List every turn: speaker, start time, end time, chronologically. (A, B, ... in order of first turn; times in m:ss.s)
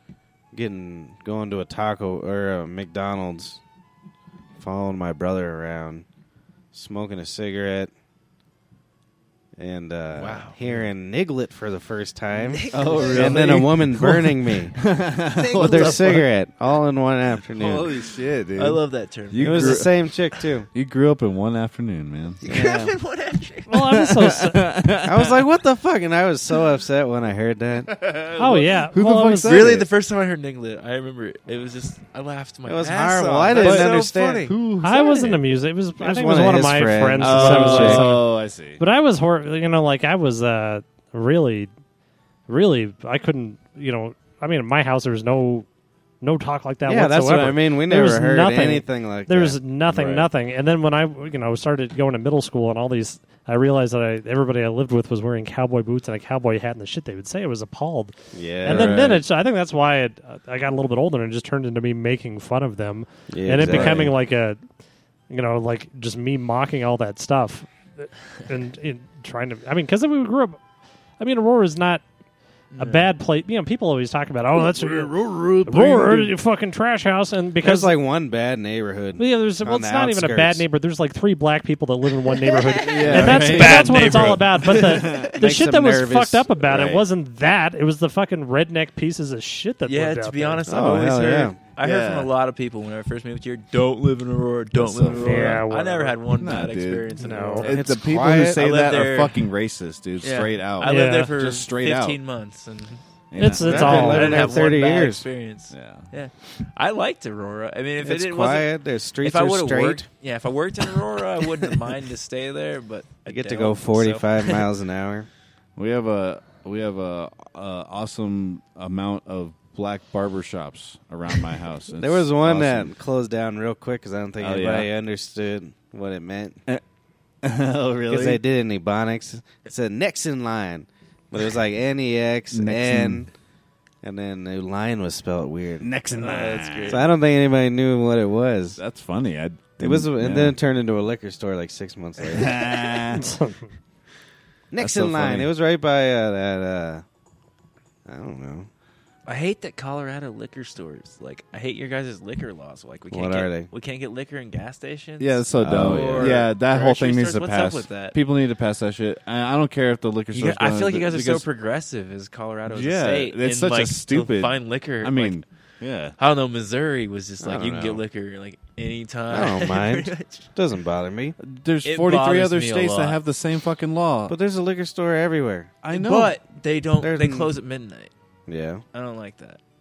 0:00.5-0:03.6 A
0:04.6-0:06.0 A
0:06.7-0:07.9 A
0:09.6-0:14.8 A
0:10.1-0:10.9 B
0:12.4-0:14.2 B
0:12.7-0:16.2 C
0:15.4-0:16.3 B
0:15.5-0:17.9 A
0:17.6-0:20.0 C
0:18.6-0:19.9 B
0:19.4-0:20.7 A
0:20.7-0:22.4 C
0:22.4-0:24.0 B
0:22.4-0:22.9 A
0:23.7-0:24.6 D
0:23.8-0:25.4 C
0:25.0-0:28.0 A
0:27.8-0:29.9 C
0:28.4-0:29.7 D
0:29.4-0:34.5 B
0:32.7-0:34.5 A
0:33.6-0:35.4 C
0:34.8-0:38.2 D
0:36.0-0:38.0 A
0:37.2-0:38.8 C
0:38.8-0:41.7 D
0:42.5-0:45.6 D
0:46.2-0:58.1 D
0:46.8-0:50.3 A
0:58.3-0:59.1 A
0:58.6-0:59.2 C
0:58.6-1:04.6 D
1:03.3-1:04.1 A
1:03.6-1:04.0 C
1:05.3-1:10.6 D
1:11.2-1:12.0 D
1:12.7-1:13.1 B
1:12.8-1:18.0 D
1:14.7-1:16.3 C
1:17.6-1:20.6 A
1:19.2-1:30.6 D
1:22.3-1:25.4 B
1:22.8-1:25.4 C
1:23.1-1:23.8 A
1:25.3-1:27.0 A
1:29.8-1:39.4 B
1:30.6-1:31.6 A
1:31.8-1:32.3 C
1:34.7-1:35.6 C
1:35.2-1:36.1 D
1:36.4-1:42.2 C
1:37.2-1:37.7 D
1:37.8-1:38.6 A
1:40.2-1:54.7 B
1:40.8-1:41.3 D
1:43.3-1:44.2 C
1:43.4-1:44.6 D
1:43.6-1:45.2 A
1:45.7-1:46.1 C
1:48.0-1:50.0 A
1:53.3-1:55.3 A
1:55.8-2:02.9 C
2:02.0-2:06.6 A
2:04.4-2:04.9 C
2:07.4-2:08.4 C
2:08.1-2:13.3 A
2:12.5-2:13.2 C
2:14.0-2:15.9 A
2:15.8-2:17.0 C
2:16.2-2:17.0 B
2:16.9-2:18.8 A
2:18.8-2:20.6 C
2:19.8-2:22.6 A
2:22.3-2:23.3 C
2:22.5-2:23.0 B
2:23.1-2:23.6 D
2:24.7-2:27.0 A
2:24.8-2:25.5 C
2:28.0-2:28.7 A
2:29.2-2:38.2 B
2:33.1-2:33.7 A
2:35.2-2:41.5 C
2:35.6-2:36.4 A
2:40.3-2:45.4 B
2:42.7-2:46.1 C
2:46.2-2:50.5 B
2:47.4-2:48.0 A
2:49.3-2:51.4 A
2:51.4-2:54.3 C
2:51.8-2:53.2 B
2:54.3-2:55.7 A
2:55.8-2:56.4 C
2:55.9-2:58.1 B
2:57.0-2:57.5 A
2:58.5-2:58.8 A
2:58.9-2:59.6 B